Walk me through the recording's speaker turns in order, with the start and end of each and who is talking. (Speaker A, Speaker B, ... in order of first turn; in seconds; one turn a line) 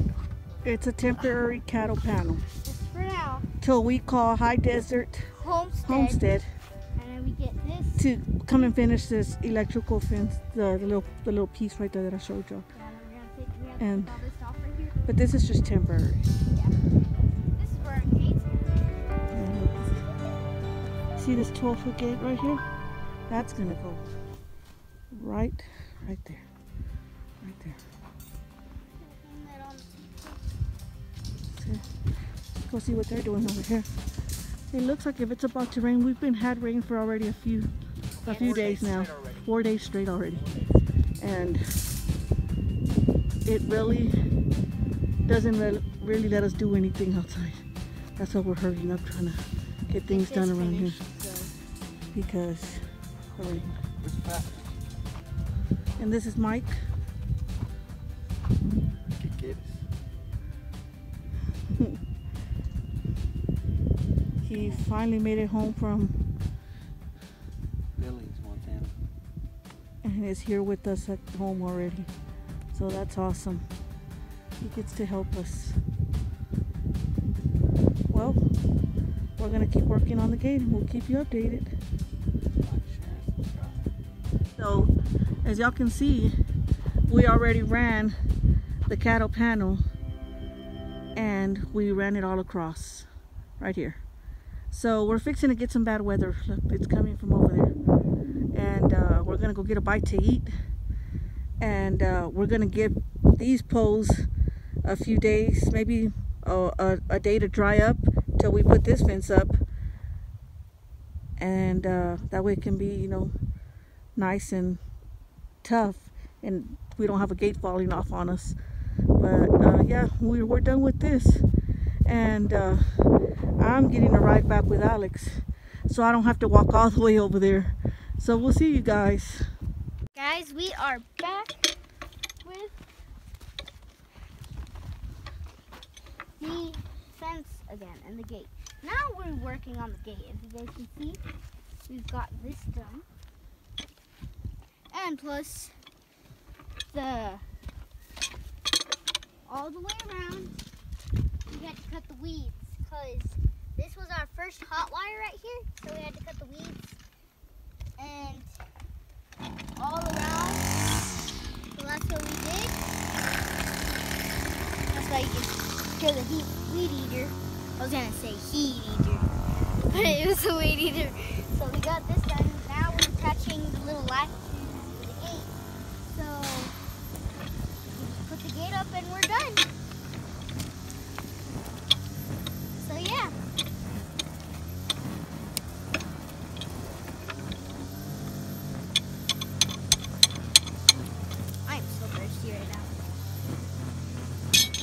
Speaker A: 0.6-2.4
Speaker B: 2.6-3.5
Speaker A: 3.6-5.3
Speaker B: 5.3-6.3
Speaker A: 5.8-6.5
Speaker B: 7.0-8.8
Speaker A: 8.0-12.7
Speaker B: 12.7-15.0
Speaker A: 13.8-14.2
Speaker A: 15.1-16.3
Speaker B: 16.5-16.8
Speaker B: 17.6-19.3
Speaker A: 19.3-20.0
Speaker A: 21.2-22.6
Speaker A: 23.3-24.1
Speaker A: 25.1-26.4
Speaker A: 27.4-27.8
Speaker B: 29.0-30.4
Speaker A: 31.5-31.8
Speaker A: 32.7-33.9
Speaker A: 34.7-37.7
Speaker C: 38.2-39.5
Speaker A: 38.2-40.6
Speaker B: 38.2-38.7
Speaker A: 41.2-41.7
Speaker A: 43.5-44.2
Speaker A: 45.3-47.6
Speaker A: 48.2-51.0
Speaker B: 50.0-51.5
Speaker A: 52.1-52.8
Speaker A: 53.4-53.7
Speaker C: 54.0-54.8
Speaker A: 56.0-56.8
Speaker C: 59.2-59.8
Speaker A: 64.4-66.2
Speaker C: 64.5-64.8
Speaker C: 68.0-69.0
Speaker A: 70.0-72.1
Speaker A: 72.7-73.7
Speaker A: 74.6-75.8
Speaker A: 78.1-78.4
Speaker A: 79.4-81.7
Speaker C: 82.6-83.8
Speaker A: 84.6-84.9
Speaker A: 85.4-86.3
Speaker A: 87.1-88.2
Speaker A: 88.9-89.8
Speaker A: 91.2-93.1
Speaker A: 93.6-94.0
Speaker A: 94.7-97.7
Speaker A: 98.5-100.5
Speaker A: 101.6-104.3
Speaker A: 104.8-109.6
Speaker A: 111.4-113.3
Speaker A: 114.2-114.8
Speaker A: 115.6-118.6
Speaker A: 119.2-121.5
Speaker A: 122.1-122.8
Speaker A: 123.6-129.5
Speaker B: 130.1-131.7
Speaker B: 132.4-132.8
Speaker B: 136.4-141.2
Speaker B: 141.9-143.1
Speaker B: 144.9-145.7
Speaker B: 146.9-147.4
Speaker B: 149.5-150.6
Speaker B: 151.5-157.0
Speaker B: 158.0-158.6
Speaker B: 159.8-160.7
Speaker B: 161.8-162.9
Speaker B: 164.9-169.3
Speaker B: 169.9-176.8
Speaker B: 177.9-179.7
Speaker B: 182.8-183.3
Speaker B: 191.7-193.0